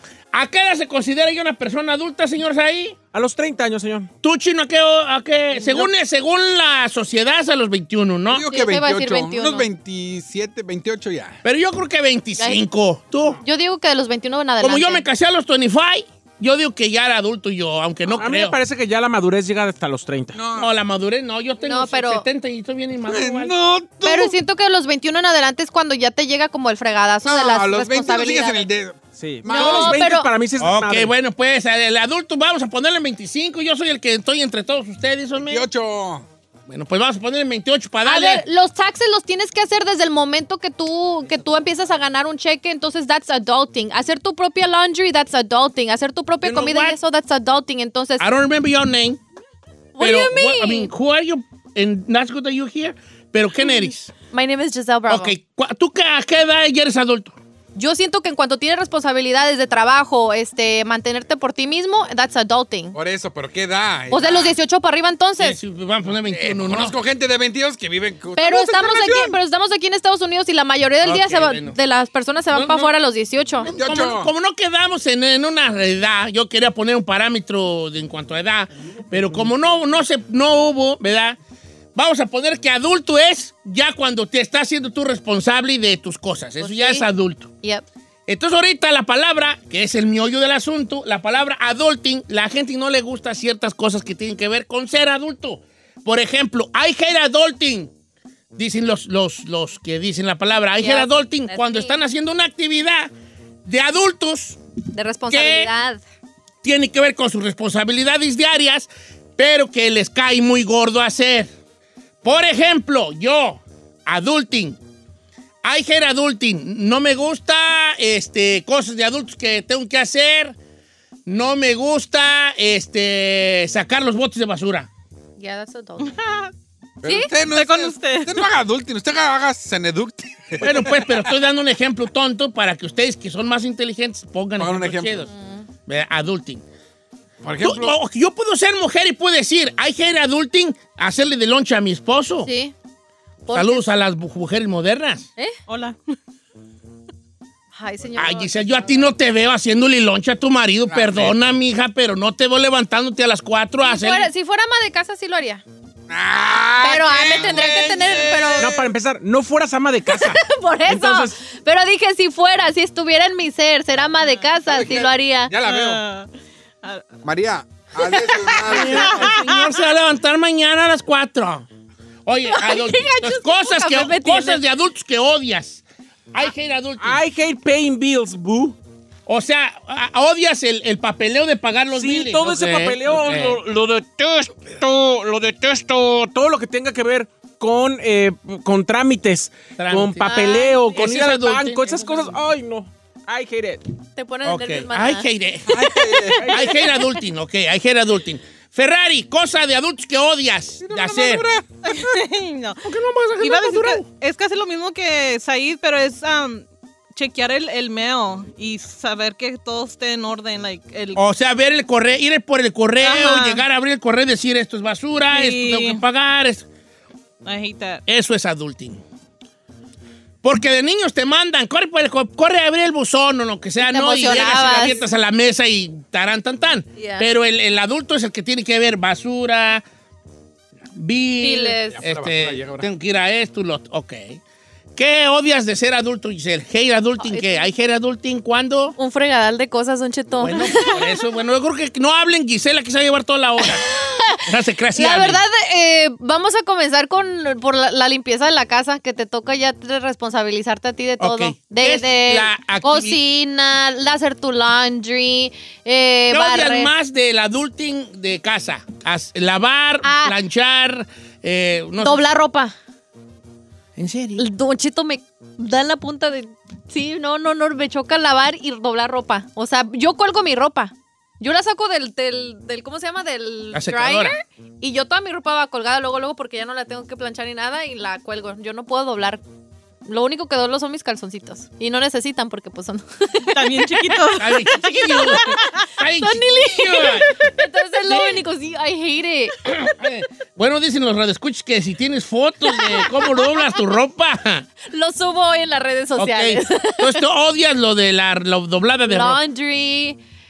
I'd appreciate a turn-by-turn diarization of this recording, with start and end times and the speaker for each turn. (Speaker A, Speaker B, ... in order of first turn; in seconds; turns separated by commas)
Speaker A: 0.3-3.0, Speaker B: 3.1-4.1, Speaker A: 4.2-8.5, Speaker B: 5.5-5.9, Speaker C: 8.3-11.4, Speaker D: 8.4-9.7, Speaker A: 11.4-13.4, Speaker D: 13.4-15.0, Speaker A: 14.6-18.6, Speaker B: 18.1-20.4, Speaker C: 20.3-20.7, Speaker A: 20.5-23.5, Speaker D: 21.6-22.2, Speaker C: 23.1-24.3, Speaker D: 24.0-28.7, Speaker C: 27.2-30.0, Speaker B: 29.2-31.1, Speaker D: 29.4-30.3, Speaker A: 30.6-35.7, Speaker C: 35.4-36.2, Speaker A: 36.7-38.4, Speaker D: 38.0-48.3, Speaker A: 46.4-47.0, Speaker A: 48.2-49.2, Speaker D: 50.0-50.9, Speaker A: 50.0-54.1, Speaker D: 54.3-55.3, Speaker A: 55.1-57.4, Speaker D: 57.7-62.9, Speaker C: 62.9-64.5, Speaker D: 64.1-65.6, Speaker A: 65.4-66.9, Speaker C: 66.2-69.3, Speaker D: 68.4-73.7, Speaker A: 71.0-71.8, Speaker A: 72.5-72.9, Speaker A: 73.6-81.4, Speaker C: 73.7-74.3, Speaker A: 81.9-87.5, Speaker D: 86.6-87.1, Speaker A: 88.3-97.9, Speaker A: 98.5-103.1, Speaker D: 100.8-101.9, Speaker A: 103.6-104.6, Speaker D: 104.9-106.0, Speaker A: 105.3-105.7, Speaker A: 106.6-111.5, Speaker A: 112.2-114.8, Speaker A: 115.6-120.5, Speaker A: 121.2-124.9, Speaker D: 125.4-126.2, Speaker E: 126.0-126.5, Speaker C: 127.0-131.3, Speaker E: 127.4-128.4, Speaker A: 130.6-135.3, Speaker C: 134.6-135.2, Speaker D: 135.2-135.7, Speaker A: 135.9-136.6, Speaker C: 137.4-137.9, Speaker A: 137.6-142.5, Speaker D: 142.4-142.7, Speaker D: 143.4-143.8, Speaker A: 143.5-145.3, Speaker E: 145.7-146.1, Speaker D: 147.7-149.1, Speaker A: 148.1-154.3, Speaker C: 150.9-151.4, Speaker D: 153.8-155.6, Speaker C: 156.1-158.9, Speaker D: 156.8-158.7, Speaker A: 157.3-157.8, Speaker B: 158.6-161.4, Speaker D: 160.1-165.5, Speaker E: 164.2-165.0, Speaker C: 164.7-166.0, Speaker E: 165.6-166.3, Speaker E: 166.8-167.1, Speaker C: 167.2-169.3, Speaker A: 168.6-171.7, Speaker E: 168.9-169.7, Speaker A: 172.2-177.2, Speaker D: 172.5-174.6, Speaker B: 177.0-178.8, Speaker A: 179.3-183.6, Speaker B: 181.9-193.8, Speaker A: 189.8-190.3, Speaker D: 190.2-191.0, Speaker A: 190.9-192.3, Speaker D: 194.2-195.3, Speaker A: 194.4-195.8, Speaker C: 195.7-196.7, Speaker B: 196.3-196.7, Speaker A: 196.5-201.5, Speaker C: 200.8-202.2, Speaker E: 201.8-202.8, Speaker A: 202.8-204.1, Speaker E: 203.4-211.2, Speaker A: 211.2-216.7, Speaker E: 213.0-213.6, Speaker E: 215.3-216.0, Speaker E: 217.4-218.0, Speaker A: 218.1-219.0, Speaker A: 220.4-229.8, Speaker D: 223.8-225.0, Speaker D: 226.9-227.3, Speaker A: 230.9-234.4, Speaker D: 231.4-232.0, Speaker C: 231.9-232.9, Speaker A: 234.9-238.9, Speaker D: 237.2-237.7, Speaker D: 239.0-241.0, Speaker A: 240.4-245.4, Speaker D: 243.6-244.4, Speaker D: 244.9-256.9, Speaker A: 251.2-253.2, Speaker A: 256.3-262.2, Speaker D: 260.0-260.3, Speaker D: 262.0-262.7, Speaker A: 263.9-264.4, Speaker D: 264.4-279.4, Speaker A: 273.7-274.3, Speaker D: 280.1-289.7, Speaker E: 283.5-285.8, Speaker A: 284.4-287.3, Speaker A: 288.1-288.4, Speaker A: 289.6-294.7, Speaker D: 294.9-297.2, Speaker A: 296.1-299.4, Speaker D: 299.1-300.2